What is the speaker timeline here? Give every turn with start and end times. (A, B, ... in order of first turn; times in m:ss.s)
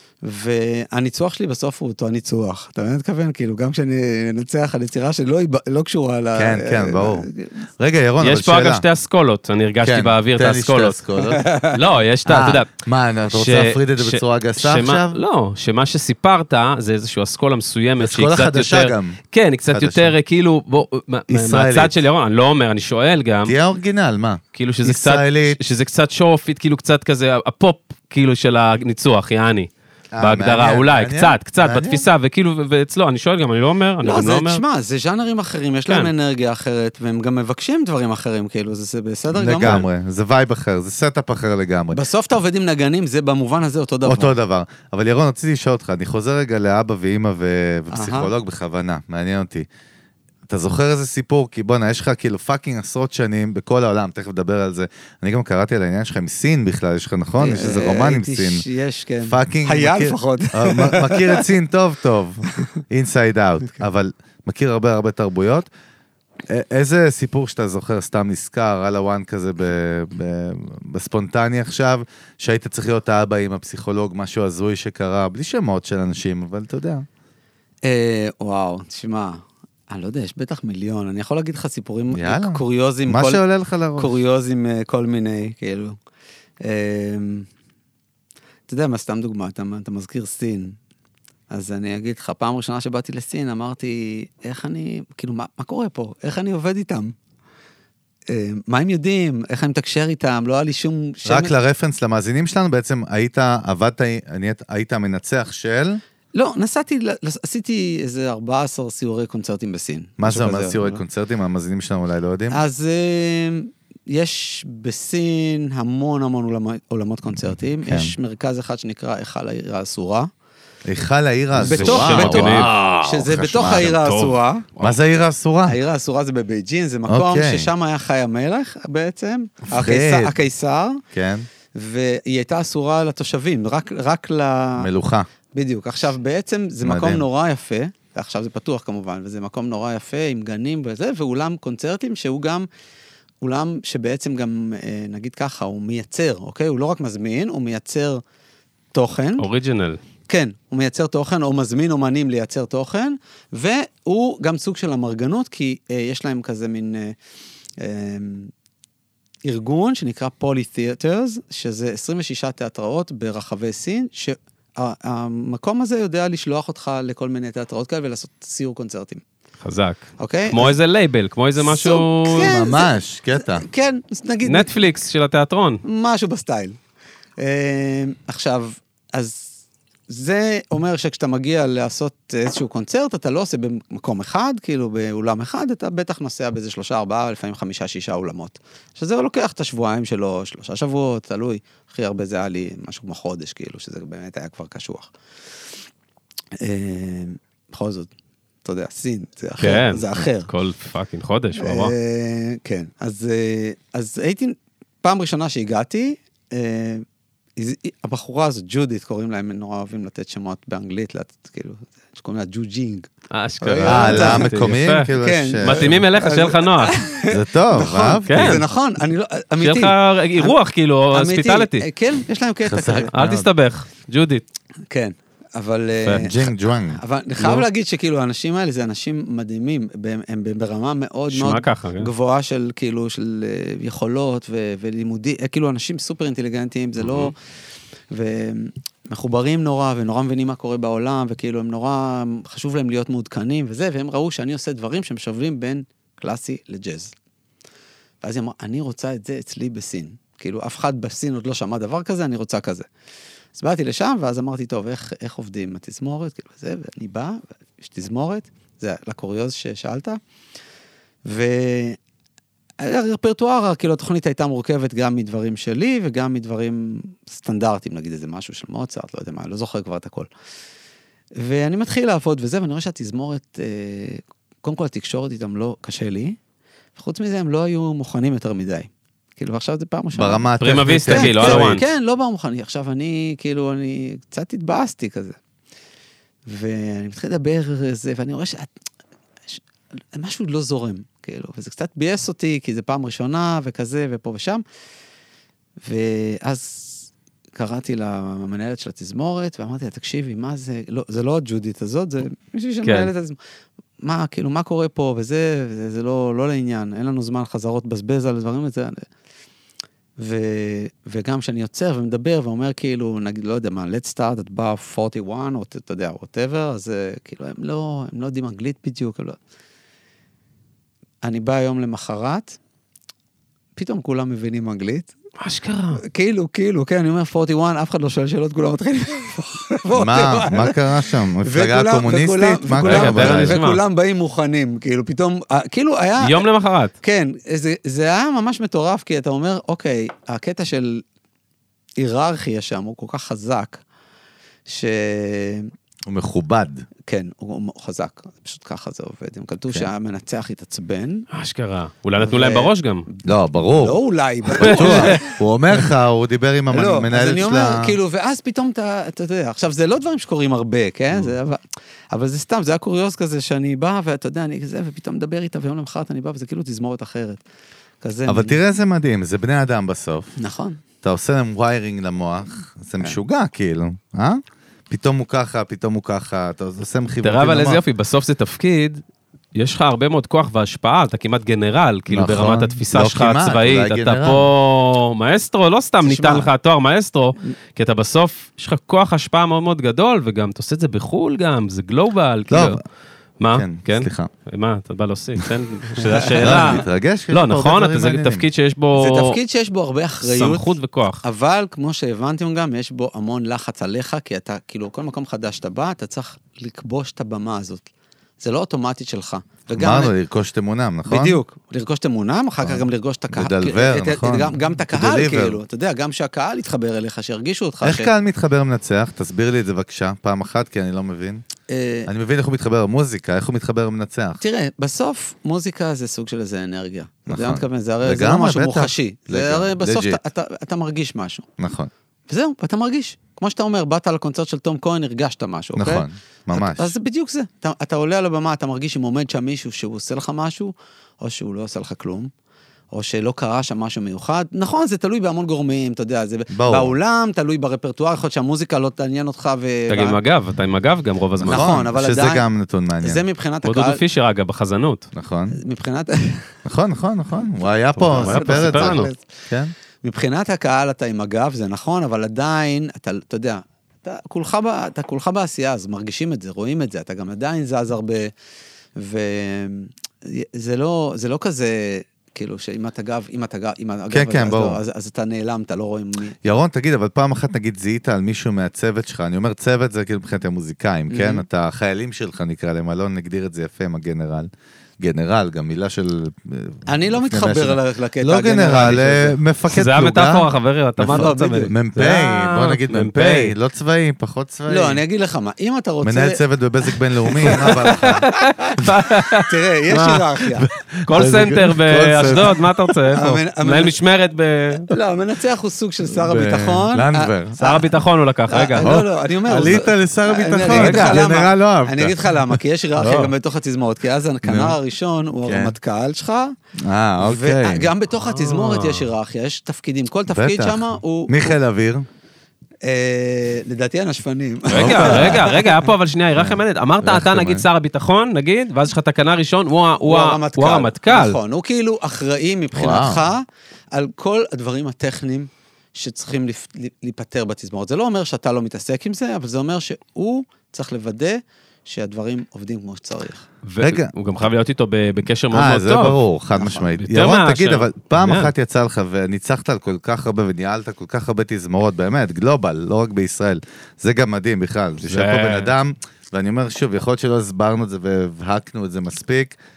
0:00.2-0:07.6 A
0:06.4-0:07.3 B
0:07.8-0:08.8 B
0:08.2-0:11.0 C
0:09.8-0:11.4 B
0:11.4-0:11.7 A
0:11.7-0:12.7 C
0:12.3-0:15.2 B
0:13.3-0:23.6 C
0:18.0-0:19.2 B
0:19.7-0:20.1 B
0:21.3-0:22.0 B
0:23.4-0:25.6 B
0:24.6-0:29.7 C
0:30.1-0:32.0 B
0:30.2-0:34.6 C
0:34.0-0:39.8 A
0:39.3-0:42.0 B
0:41.9-0:44.3 A
0:44.0-0:49.7 B
0:47.9-0:48.3 A
0:50.5-0:58.6 B
0:57.4-1:01.4 A
0:59.2-1:05.7 B
1:06.5-1:17.1 B
1:17.8-1:23.4 A
1:22.1-1:24.1 B
1:24.0-1:26.0 A
1:26.6-1:27.5 A
1:28.7-1:30.8 A
1:31.5-1:37.2 A
1:38.3-1:41.5 A
1:41.3-1:46.0 B
1:46.3-1:51.0 A
1:50.2-1:52.6 B
1:52.5-2:00.3 A
1:57.8-1:58.1 B
2:00.8-2:04.0 B
2:01.6-2:04.7 A
2:01.6-2:03.0 C
2:03.7-2:05.0 C
2:04.8-2:05.8 B
2:05.7-2:11.0 A
2:07.1-2:07.7 B
2:09.7-2:10.3 B
2:11.1-2:11.5 B
2:11.7-2:14.9 A
2:14.8-2:15.3 B
2:15.5-2:22.7 A
2:16.8-2:17.2 B
2:23.4-2:28.2 A
2:28.9-2:29.5 A
2:29.4-2:30.0 C
2:30.3-2:37.2 A
2:37.8-2:38.5 A
2:39.4-2:49.2 A
2:49.6-2:52.5 C
2:50.2-2:50.8 A
2:51.6-2:54.7 A
2:52.4-2:53.6 B
2:54.4-2:55.8 C
2:55.8-2:56.8 A
2:57.4-2:59.5 A
3:00.1-3:15.1 A
3:16.6-3:18.1 A
3:18.6-3:20.5 A
3:19.6-3:21.9 C
3:21.6-3:27.0 A
3:27.6-3:33.1 A
3:33.3-3:37.0 C
3:33.6-3:40.6 A
3:33.8-3:36.0 B
3:37.3-3:38.6 B
3:38.3-3:38.6 C
3:39.6-3:41.9 C
3:41.1-3:43.1 A
3:42.6-3:43.5 B
3:43.1-3:44.4 C
3:44.9-3:57.3 A
3:46.1-3:47.0 B
3:47.4-3:47.6 C
3:51.3-3:52.1 C
3:57.0-3:57.3 C
3:58.1-4:07.1 A
4:08.2-4:12.9 A
4:13.6-4:20.2 A
4:21.3-4:22.0 A
4:22.8-4:30.3 A
4:31.4-4:36.4 A
4:37.0-4:45.4 A
4:40.2-4:41.8 B
4:40.6-4:41.8 C
4:46.5-4:48.7 A
4:50.1-4:54.6 A
4:55.8-5:03.4 A
5:02.8-5:03.1 C
5:04.0-5:09.0 A
5:10.2-5:19.4 A
5:21.2-5:22.6 A
5:23.8-5:25.1 A
5:25.4-5:26.0 C
5:26.0-5:36.4 A
5:30.0-5:33.6 B
5:32.8-5:33.8 C
5:36.2-5:37.0 C
5:37.0-5:41.0 A
5:42.0-5:43.8 A
5:44.7-5:45.7 A
5:46.1-5:46.9 B
5:47.1-5:51.3 A
5:51.3-5:53.1 C
5:52.2-5:53.2 A
5:53.2-5:54.0 B
5:53.8-5:55.4 A
5:54.6-5:55.2 C
5:54.6-5:58.0 B
5:56.7-6:07.4 A
6:08.0-6:08.6 A
6:08.3-6:10.4 B
6:10.4-6:10.8 A
6:11.0-6:17.8 B
6:17.2-6:19.0 C
6:19.6-6:32.8 C
6:22.1-6:24.5 B
6:26.0-6:26.5 A
6:32.5-6:32.8 B
6:33.4-6:39.4 C
6:33.5-6:34.3 B
6:36.0-6:36.7 A
6:36.4-6:38.4 B
6:38.9-6:47.9 A
6:40.2-6:41.2 C
6:48.4-6:50.1 A
6:49.8-6:51.4 B
6:51.1-6:58.1 A
6:52.6-6:55.6 B
6:57.8-7:01.4 B
7:01.7-7:02.1 A
7:02.1-7:04.4 B
7:04.4-7:11.5 A
7:07.3-7:10.2 B
7:11.6-7:11.9 B
7:12.3-7:22.3 A
7:15.8-7:16.9 B
7:22.9-7:30.2 A
7:26.5-7:26.9 B
7:29.9-7:31.7 C
7:31.4-7:33.2 B
7:31.4-7:32.4 A
7:33.0-7:34.0 A
7:33.6-7:35.1 C
7:35.2-7:35.6 B
7:35.5-7:36.5 A
7:36.6-7:39.7 B
7:38.0-7:39.1 C
7:38.1-7:39.2 A
7:40.0-7:48.3 A
7:49.0-7:56.4 A
7:54.1-7:54.8 B
7:56.4-8:04.5 B
8:01.1-8:01.4 A
8:05.0-8:10.5 B
8:06.9-8:09.4 A
8:09.7-8:13.5 C
8:11.0-8:15.0 B
8:11.1-8:11.7 A
8:14.7-8:16.4 A
8:16.0-8:18.3 B
8:17.3-8:18.8 A
8:17.4-8:20.2 C
8:19.4-8:20.7 A
8:20.7-8:23.0 B
8:21.1-8:24.9 C
8:23.1-8:24.0 A
8:24.9-8:27.9 A
8:26.2-8:27.7 B
8:27.6-8:29.0 C
8:28.5-8:36.6 A
8:28.8-8:32.6 B
8:30.7-8:31.2 C
8:33.0-8:33.3 C
8:34.4-8:34.8 B
8:35.4-8:35.8 B
8:36.8-8:37.9 B
8:37.2-8:41.6 A
8:38.2-8:39.1 C
8:40.3-8:42.1 B
8:42.8-8:45.7 A
8:44.7-8:51.4 C
8:44.7-8:45.5 B
8:46.4-8:47.7 B
8:50.0-9:03.5 A
8:52.7-8:53.2 B
9:03.7-9:06.2 C
9:03.8-9:04.1 B
9:05.5-9:19.6 B
9:06.8-9:08.5 C
9:15.0-9:15.7 C